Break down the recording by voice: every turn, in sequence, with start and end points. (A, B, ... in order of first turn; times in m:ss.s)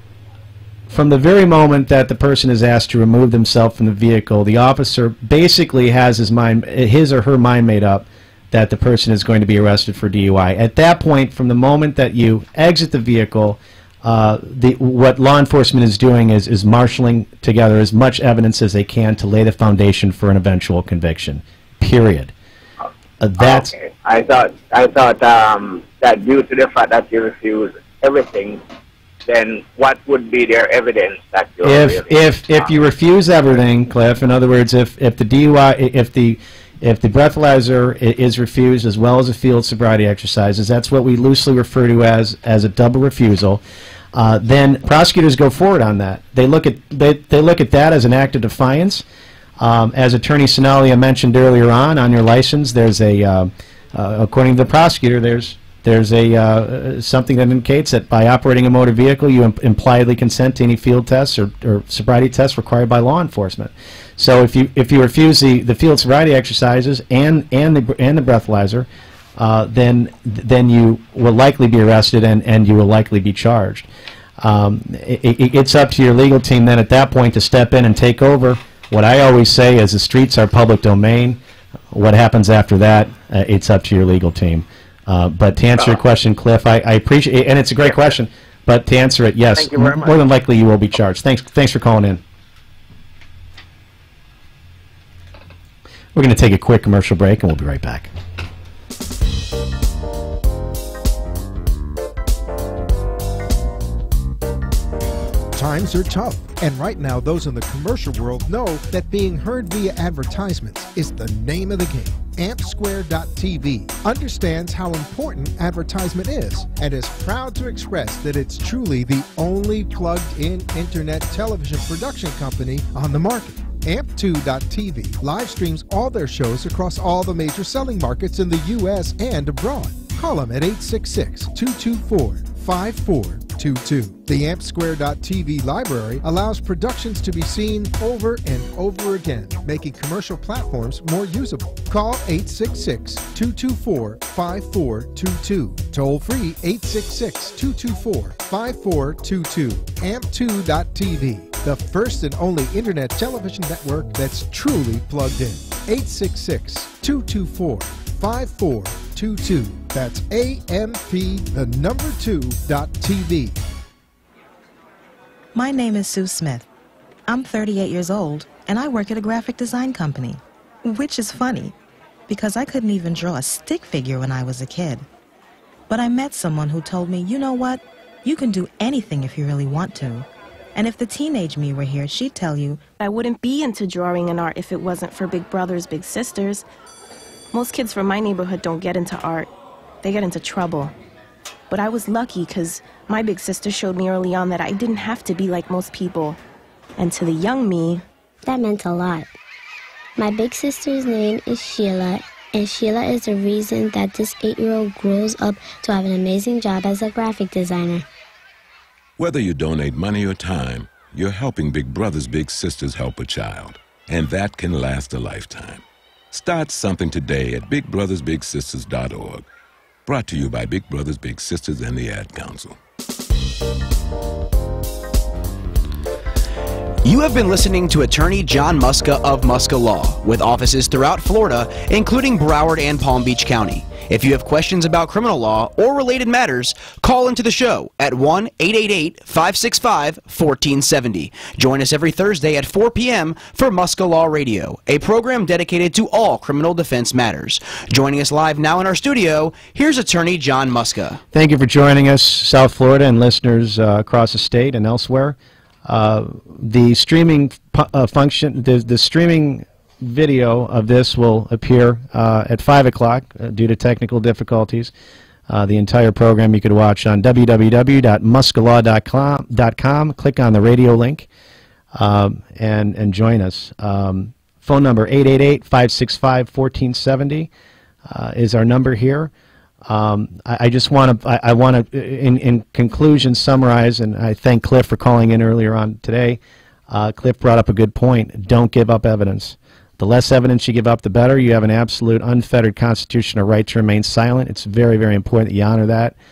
0:00.9-0:22.3 A
0:23.2-0:23.7 A
0:23.4-0:28.6 B
0:29.2-0:32.7 B
0:31.6-0:43.6 A
0:44.1-0:49.0 A
0:49.6-1:13.9 A
1:14.4-1:21.4 A
1:21.9-1:32.2 A
1:29.6-1:30.2 B
1:36.1-1:38.1 A
1:45.5-2:43.6 C
2:45.5-2:46.6 D
2:47.3-2:51.7 D
2:52.3-2:55.0 D
2:55.9-3:02.8 D
3:03.0-3:06.6 E
3:07.5-3:09.5 E
3:10.0-3:10.9 E
3:11.7-3:16.4 E
3:17.0-3:18.0 E
3:18.4-3:19.3 F
3:20.2-3:28.0 F
3:29.2-3:39.4 G
3:40.0-3:42.7 G
3:47.0-4:11.2 H
4:11.3-4:24.9 A
4:25.5-4:31.3 A
4:31.9-4:37.5 A
4:38.1-4:39.3 A
4:39.8-4:56.1 A